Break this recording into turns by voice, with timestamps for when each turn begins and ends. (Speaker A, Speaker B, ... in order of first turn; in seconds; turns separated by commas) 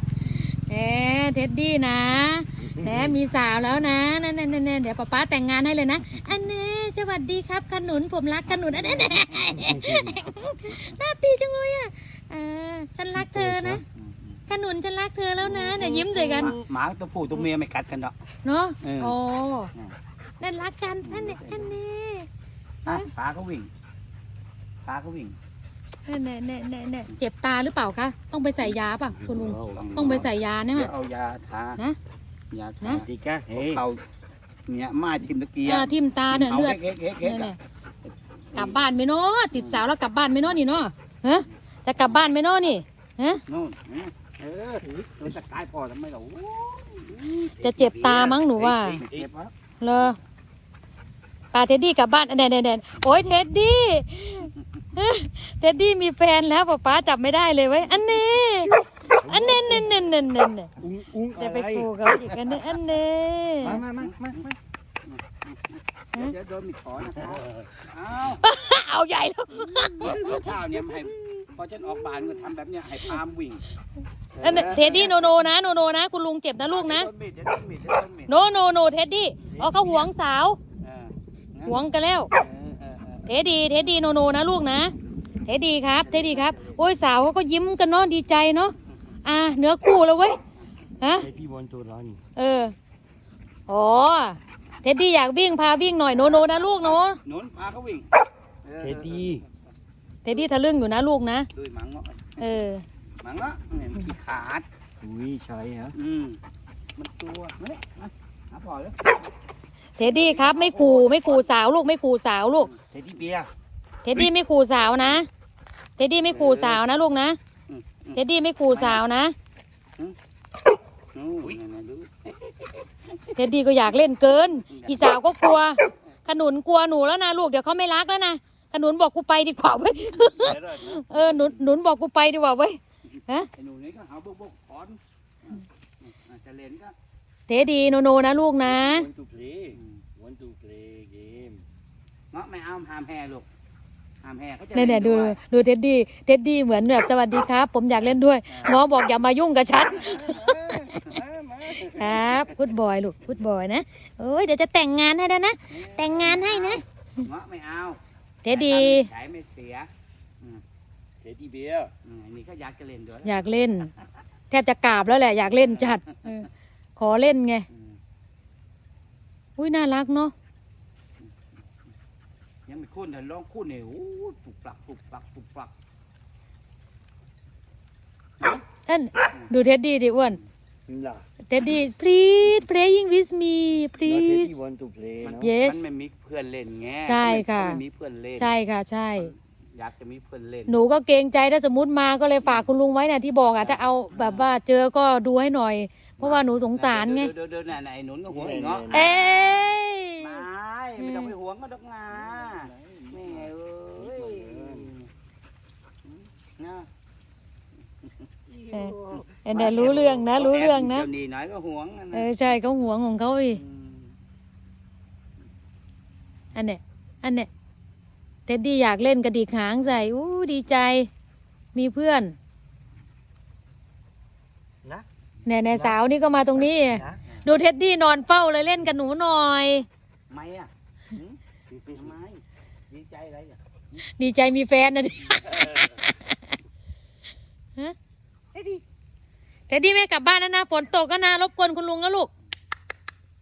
Speaker A: 0.5-13.8, Speaker B: 2.8-3.1, Speaker B: 9.5-10.2, Speaker B: 13.2-13.8, Speaker C: 13.9-14.4, Speaker A: 14.5-16.6, Speaker C: 15.5-18.1, Speaker B: 15.5-16.6, Speaker A: 18.4-19.7, Speaker C: 18.8-19.1, Speaker A: 20.4-22.3, Speaker C: 21.0-21.8, Speaker C: 22.9-23.7, Speaker C: 24.8-25.3, Speaker A: 26.1-30.9, Speaker B: 29.2-30.2, Speaker C: 29.7-31.8, Speaker C: 32.5-34.0, Speaker B: 32.9-33.8, Speaker C: 34.7-37.5, Speaker A: 35.6-37.5, Speaker C: 38.5-38.8, Speaker A: 38.5-43.4, Speaker C: 39.5-39.8, Speaker C: 43.5-47.4, Speaker A: 47.4-49.0, Speaker B: 47.6-48.4, Speaker C: 48.0-49.5, Speaker B: 48.9-49.2, Speaker A: 49.8-50.2, Speaker A: 51.5-60.7, Speaker B: 59.1-59.9, Speaker B: 60.8-62.6, Speaker A: 61.3-63.9, Speaker B: 63.6-64.6, Speaker C: 65.0-65.6, Speaker C: 66.1-68.5, Speaker B: 67.2-67.7, Speaker A: 68.3-70.4, Speaker C: 70.0-73.7, Speaker B: 74.4-74.8, Speaker A: 74.4-77.1, Speaker C: 74.4-75.3, Speaker C: 76.7-78.3, Speaker A: 78.3-80.6, Speaker C: 79.4-79.9, Speaker B: 79.7-80.0, Speaker C: 80.8-81.8, Speaker A: 81.7-82.3, Speaker C: 82.3-83.3, Speaker A: 83.3-84.9, Speaker A: 85.5-88.7, Speaker C: 86.0-86.8, Speaker A: 89.2-90.4, Speaker A: 91.0-91.3, Speaker B: 91.2-92.2, Speaker A: 92.3-92.7, Speaker A: 93.7-97.2, Speaker C: 96.1-98.1, Speaker C: 98.6-99.4, Speaker B: 98.8-99.4, Speaker A: 100.2-101.5, Speaker C: 101.5-102.6, Speaker A: 102.4-102.8, Speaker C: 103.2-104.7, Speaker B: 105.0-105.9, Speaker C: 105.9-106.4, Speaker C: 107.0-109.0, Speaker A: 110.0-112.7, Speaker C: 110.0-111.5, Speaker B: 112.9-113.5, Speaker A: 114.0-115.3, Speaker A: 116.0-117.4, Speaker C: 116.2-116.8, Speaker C: 117.7-119.0, Speaker A: 118.1-119.3, Speaker C: 121.1-123.3, Speaker A: 123.3-133.5, Speaker C: 124.3-125.0, Speaker B: 130.3-131.4, Speaker C: 133.5-136.9, Speaker A: 137.5-139.1, Speaker B: 138.6-141.6, Speaker C: 139.7-140.0, Speaker C: 142.3-143.5, Speaker C: 144.2-145.4, Speaker A: 144.7-150.5, Speaker C: 148.5-148.8, Speaker B: 149.9-152.6, Speaker A: 151.9-156.8, Speaker C: 155.7-159.9, Speaker A: 158.4-159.1, Speaker B: 161.2-161.9, Speaker C: 162.0-163.6, Speaker A: 163.2-163.9, Speaker A: 164.5-167.7, Speaker C: 165.4-166.4, Speaker C: 167.7-168.0, Speaker A: 169.6-170.3, Speaker C: 172.7-175.7, Speaker A: 178.9-180.4, Speaker B: 180.9-181.2, Speaker A: 181.5-184.5, Speaker B: 184.0-185.5, Speaker C: 185.2-188.6, Speaker A: 185.4-185.8, Speaker A: 187.0-187.8, Speaker A: 188.4-189.3, Speaker C: 189.2-190.8, Speaker A: 190.7-197.3, Speaker C: 192.4-192.7, Speaker C: 193.5-194.5, Speaker C: 196.2-205.1, Speaker B: 198.3-199.2, Speaker A: 198.9-200.4, Speaker A: 201.0-201.3, Speaker B: 202.1-204.9, Speaker C: 206.1-206.9, Speaker B: 208.5-209.2, Speaker A: 208.7-211.1, Speaker C: 209.1-212.3, Speaker A: 212.1-213.6, Speaker C: 213.5-214.1, Speaker A: 216.5-217.5, Speaker A: 218.5-221.1, Speaker A: 221.7-222.3, Speaker A: 225.4-229.9, Speaker B: 226.9-227.2, Speaker C: 230.3-233.6, Speaker B: 231.7-232.0, Speaker A: 234.1-236.5, Speaker B: 238.5-238.8, Speaker A: 239.7-242.3